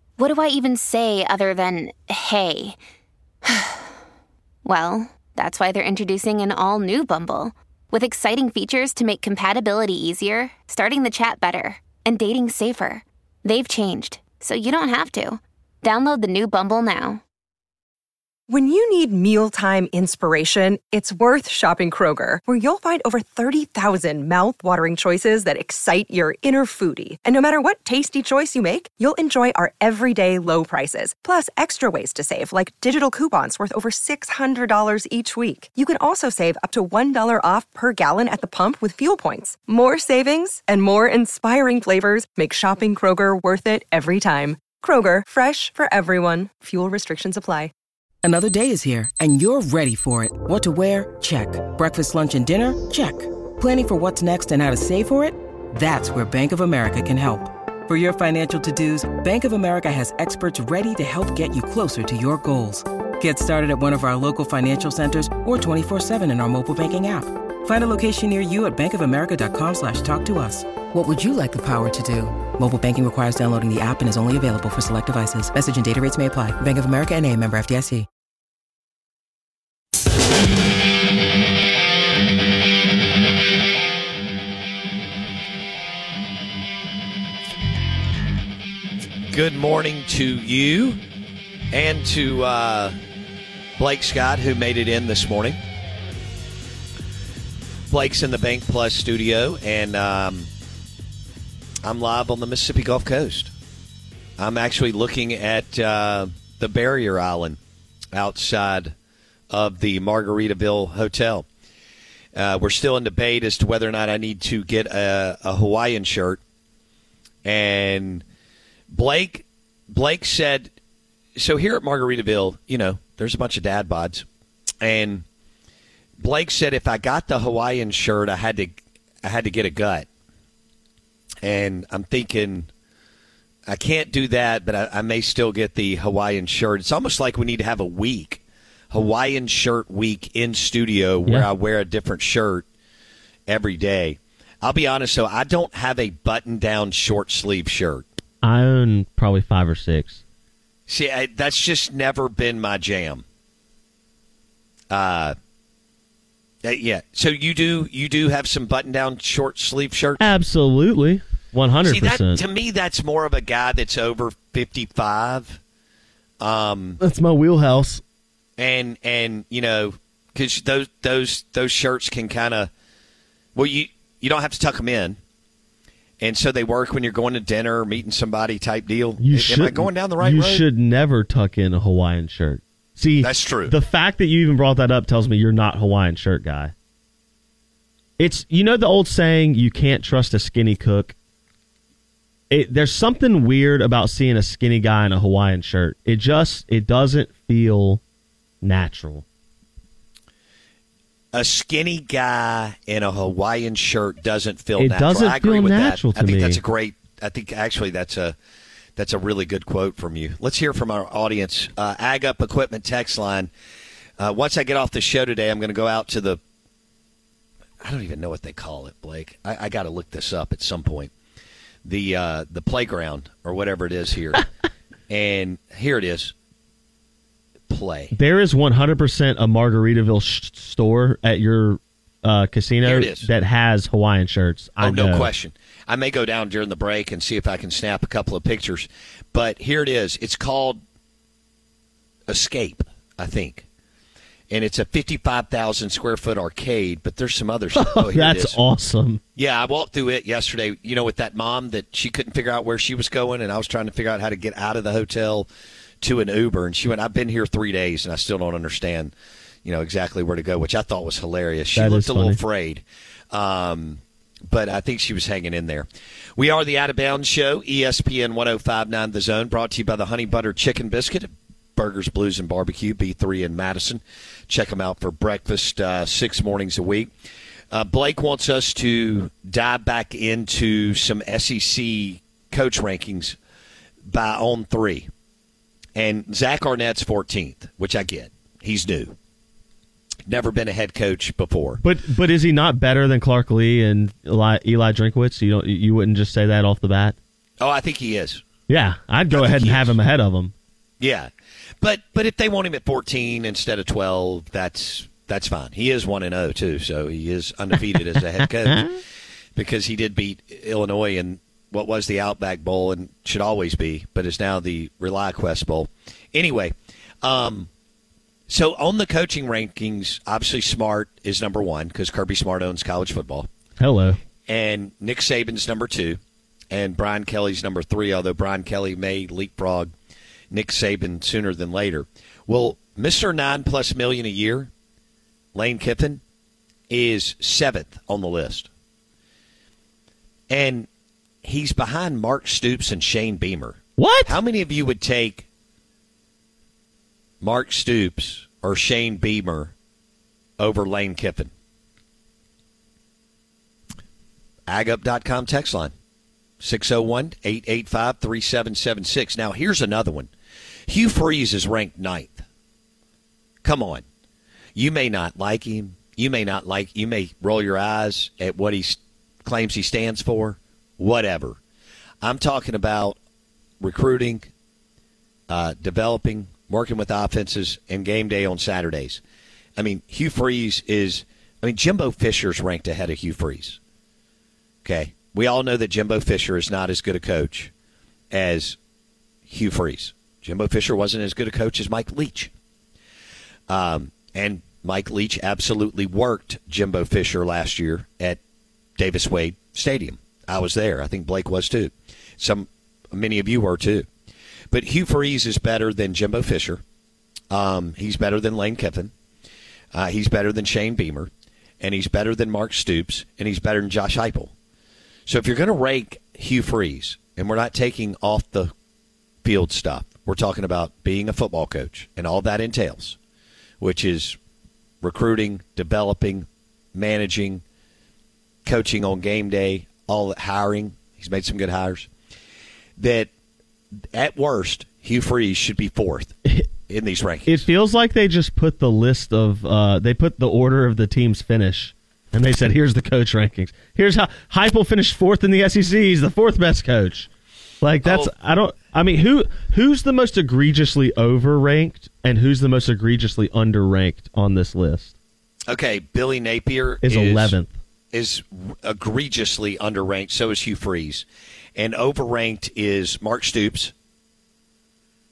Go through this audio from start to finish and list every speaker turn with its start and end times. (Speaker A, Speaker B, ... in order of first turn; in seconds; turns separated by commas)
Speaker A: 0.2-2.8, Speaker A: 3.5-3.9, Speaker A: 4.7-17.2, Speaker B: 18.5-47.7, Speaker C: 48.2-78.1, Speaker D: 89.3-91.0, Speaker D: 91.7-93.0, Speaker D: 93.8-95.6, Speaker D: 97.9-100.5, Speaker D: 101.8-103.5, Speaker D: 104.4-107.6, Speaker D: 108.1-108.9, Speaker D: 109.5-111.5, Speaker D: 112.3-116.4, Speaker D: 117.5-118.2, Speaker D: 118.9-120.7, Speaker D: 121.4-124.3, Speaker D: 124.8-125.2, Speaker D: 126.2-130.1, Speaker D: 131.4-132.7, Speaker D: 133.7-138.4, Speaker D: 138.9-142.7, Speaker D: 143.5-148.1, Speaker E: 148.4-150.2, Speaker D: 150.9-153.2, Speaker D: 154.9-155.3, Speaker D: 156.6-160.3, Speaker E: 160.2-162.4, Speaker D: 161.9-165.6, Speaker D: 166.4-167.0, Speaker E: 167.0-168.0, Speaker D: 168.6-172.7, Speaker D: 173.6-175.2, Speaker D: 176.2-180.7, Speaker E: 179.2-186.7, Speaker D: 183.2-183.7, Speaker E: 188.2-191.2, Speaker E: 192.5-198.0, Speaker E: 198.6-199.2, Speaker D: 201.3-208.4, Speaker E: 204.8-206.6, Speaker D: 209.0-213.5, Speaker D: 214.2-216.4, Speaker D: 217.8-221.1, Speaker D: 221.8-224.4, Speaker D: 225.1-226.3, Speaker D: 227.7-228.1, Speaker E: 228.1-235.3, Speaker D: 232.8-233.3, Speaker D: 234.8-240.8, Speaker D: 242.3-243.7, Speaker D: 244.5-248.6, Speaker E: 247.7-249.2, Speaker D: 249.4-255.5, Speaker D: 256.0-259.1, Speaker D: 259.6-277.1, Speaker E: 261.8-262.4, Speaker D: 277.7-283.4, Speaker D: 284.1-285.1, Speaker D: 286.0-289.1, Speaker D: 290.3-291.8, Speaker E: 291.8-297.2, Speaker D: 297.6-298.4, Speaker E: 298.7-300.5, Speaker D: 299.4-300.0, Speaker D: 301.0-301.3, Speaker D: 301.8-309.0, Speaker D: 309.6-317.7, Speaker D: 318.5-323.5, Speaker E: 323.8-324.2, Speaker D: 324.5-326.2, Speaker D: 326.7-329.9, Speaker D: 330.5-334.7, Speaker D: 335.5-336.2, Speaker D: 336.9-338.7, Speaker D: 340.5-340.9, Speaker D: 341.4-345.5, Speaker E: 344.0-344.3, Speaker D: 347.4-349.7, Speaker D: 350.6-351.5, Speaker D: 354.7-355.9, Speaker D: 356.6-360.3, Speaker D: 360.9-362.4, Speaker D: 363.6-364.0, Speaker D: 364.8-371.6, Speaker D: 372.2-373.2, Speaker D: 373.8-374.5, Speaker D: 375.5-379.2, Speaker D: 379.8-383.8, Speaker D: 384.8-387.7, Speaker D: 388.3-388.8, Speaker D: 389.5-392.5, Speaker D: 393.7-398.4, Speaker D: 399.0-404.1, Speaker D: 404.7-406.8, Speaker D: 407.5-409.1, Speaker D: 409.9-414.5, Speaker D: 415.3-418.7, Speaker D: 419.4-423.2, Speaker D: 423.8-424.4, Speaker D: 425.0-427.6, Speaker D: 428.6-432.1, Speaker D: 433.0-433.3, Speaker D: 434.1-436.4, Speaker D: 436.9-437.7, Speaker E: 437.5-447.3, Speaker E: 447.8-455.1, Speaker D: 448.0-448.3, Speaker D: 455.7-457.6, Speaker E: 457.0-457.7, Speaker D: 458.1-463.9